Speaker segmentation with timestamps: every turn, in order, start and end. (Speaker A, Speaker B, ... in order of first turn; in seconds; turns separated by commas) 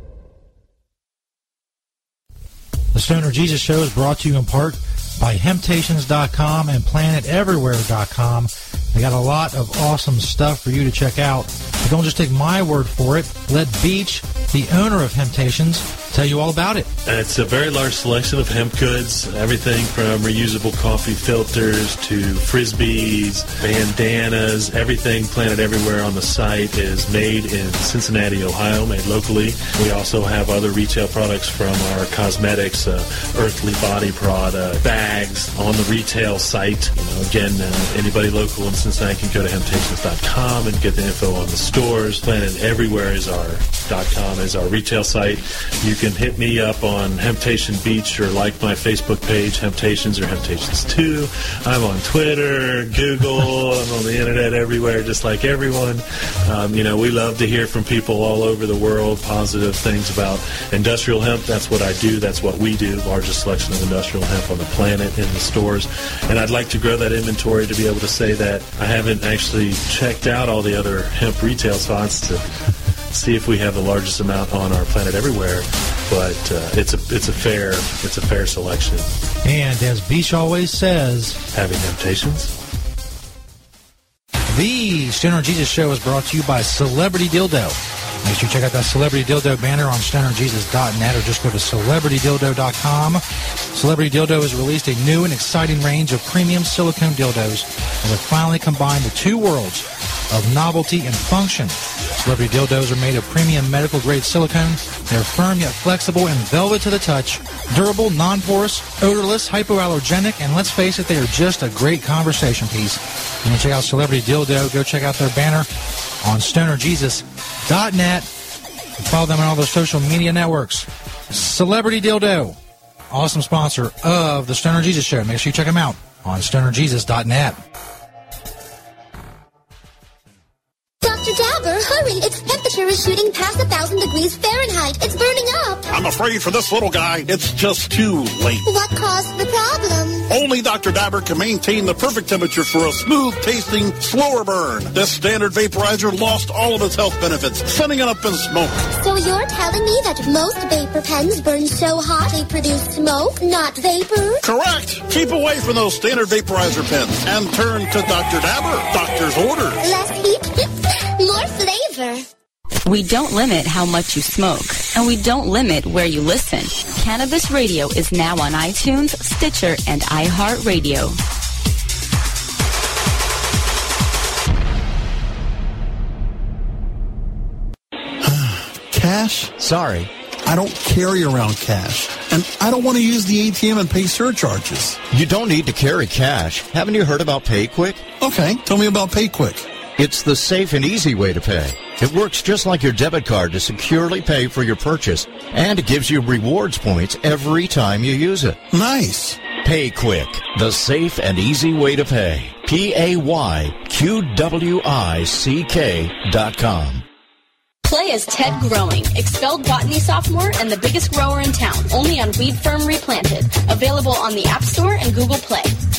Speaker A: 2.9-16.9, Speaker B: 17.1-72.4, Speaker B: 73.1-79.1, Speaker A: 79.4-81.4, Speaker B: 81.5-82.5, Speaker A: 84.5-115.7, Speaker A: 116.2-118.3, Speaker A: 119.0-122.6, Speaker A: 123.1-127.6, Speaker C: 131.0-135.9, Speaker D: 135.9-138.7, Speaker C: 138.6-140.3, Speaker D: 140.3-148.8, Speaker C: 149.0-154.4, Speaker D: 154.4-159.8, Speaker C: 159.8-162.3, Speaker E: 162.8-171.2, Speaker D: 178.2-179.6, Speaker F: 179.6-180.1, Speaker D: 180.4-185.0, Speaker F: 185.1-188.0, Speaker D: 188.2-189.7, Speaker F: 190.0-198.6, Speaker D: 198.7-199.4, Speaker F: 199.6-207.0, Speaker G: 207.8-215.7